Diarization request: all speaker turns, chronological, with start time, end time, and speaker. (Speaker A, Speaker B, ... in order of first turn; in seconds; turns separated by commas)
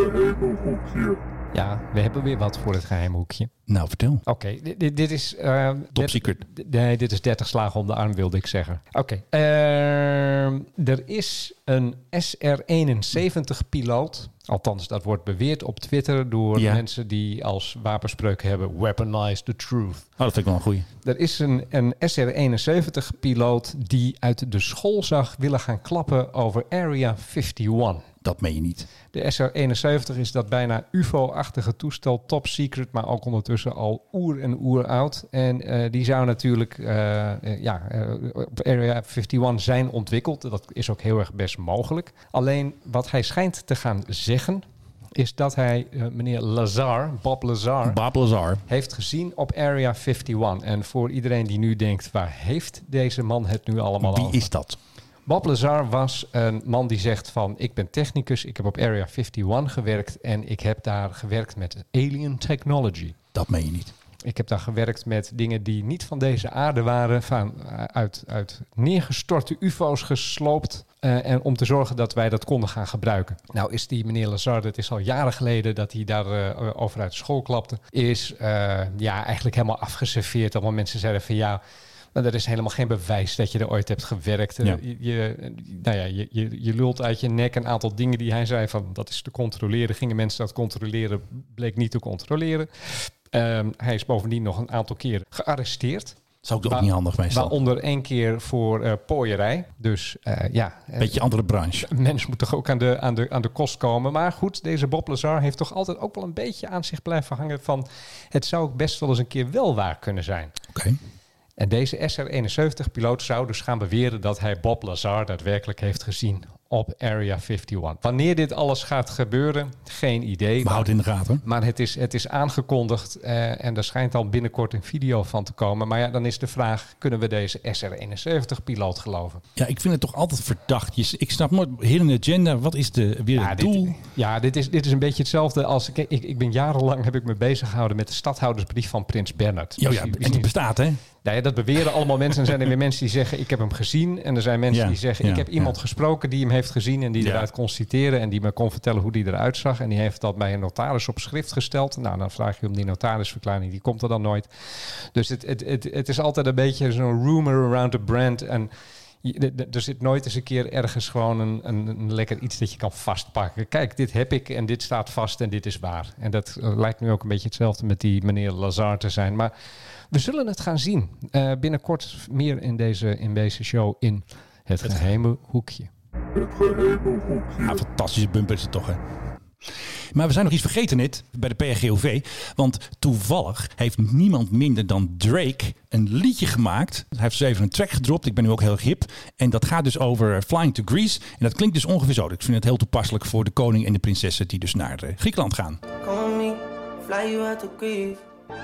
Speaker A: 1.5-3.5, Speaker B: 3.7-4.2, Speaker A: 4.2-20.1, Speaker B: 5.9-6.4, Speaker B: 16.5-16.8, Speaker B: 20.2-20.9, Speaker A: 21.0-28.1, Speaker B: 28.2-28.9, Speaker A: 29.1-44.6, Speaker A: 45.1-48.0, Speaker B: 47.8-48.6, Speaker A: 48.7-54.4, Speaker B: 54.0-54.8, Speaker A: 55.3-63.1, Speaker B: 63.3-63.9, Speaker A: 64.2-81.6, Speaker A: 82.1-101.2, Speaker B: 96.4-97.5, Speaker B: 101.0-101.9, Speaker A: 101.8-110.5, Speaker B: 110.7-111.0, Speaker A: 111.6-120.9, Speaker B: 120.6-121.4, Speaker A: 121.4-129.4, Speaker B: 129.6-133.9, Speaker A: 133.3-140.5, Speaker B: 139.8-141.0, Speaker A: 141.2-154.5, Speaker B: 144.7-145.7, Speaker B: 147.2-147.5, Speaker A: 155.1-158.7, Speaker A: 159.2-169.5, Speaker A: 170.1-175.9, Speaker B: 177.5-179.0, Speaker B: 180.1-195.8, Speaker C: 196.0-198.2